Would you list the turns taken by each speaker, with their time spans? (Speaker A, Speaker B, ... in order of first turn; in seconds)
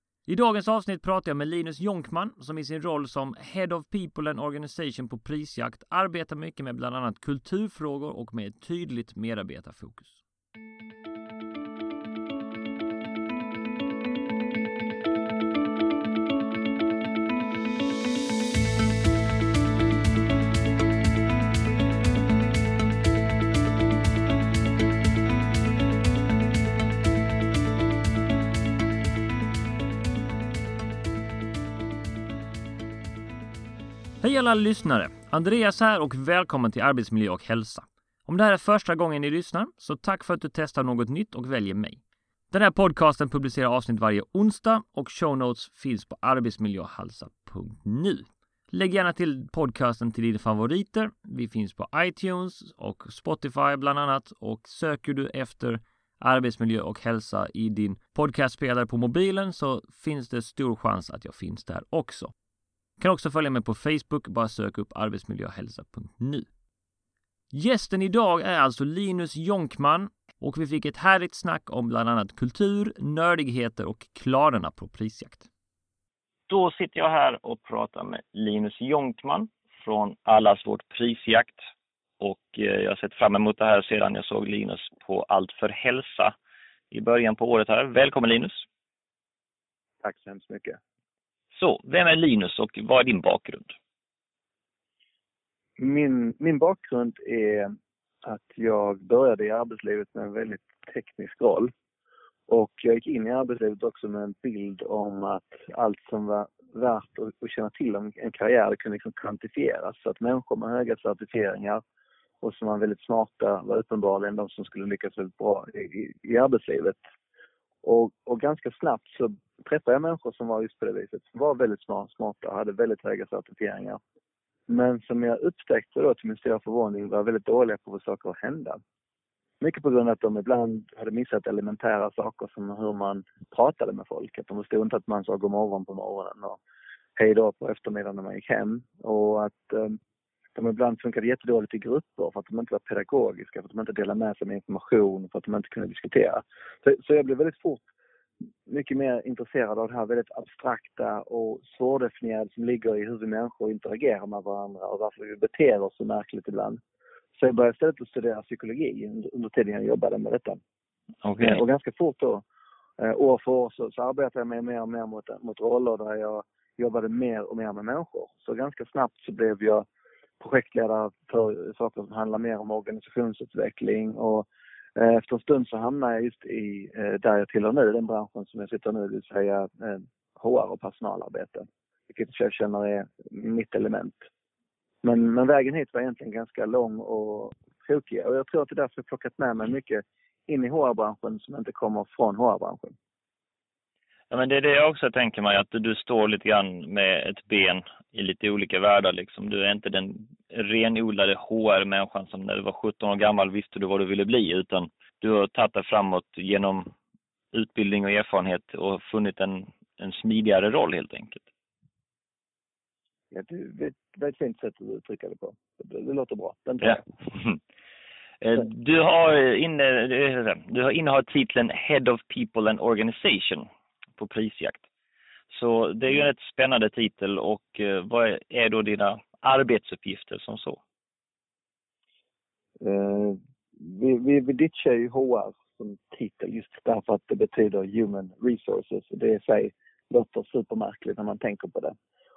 Speaker A: 0.3-10.2, 34.2-42.0, 42.5-62.3, 63.0-66.5, 67.5-75.5
Speaker B: 76.5-81.6, 82.2-86.3, 86.9-88.7, 91.5-93.7, 161.2-161.6, 194.3-206.9, 207.5-211.4, 216.8-217.6, 218.4-223.7, 224.2-224.8, 225.5-230.8
Speaker C: 90.0-90.8, 95.8-101.7, 102.5-111.8, 112.4-117.0, 117.8-124.0, 124.7-128.8, 129.6-136.6, 137.2-140.0, 140.6-147.9, 148.7-156.8, 157.4-160.6, 161.4-162.4, 163.0-169.8, 170.4-184.2, 185.0-192.9, 213.3-217.1, 232.8-241.9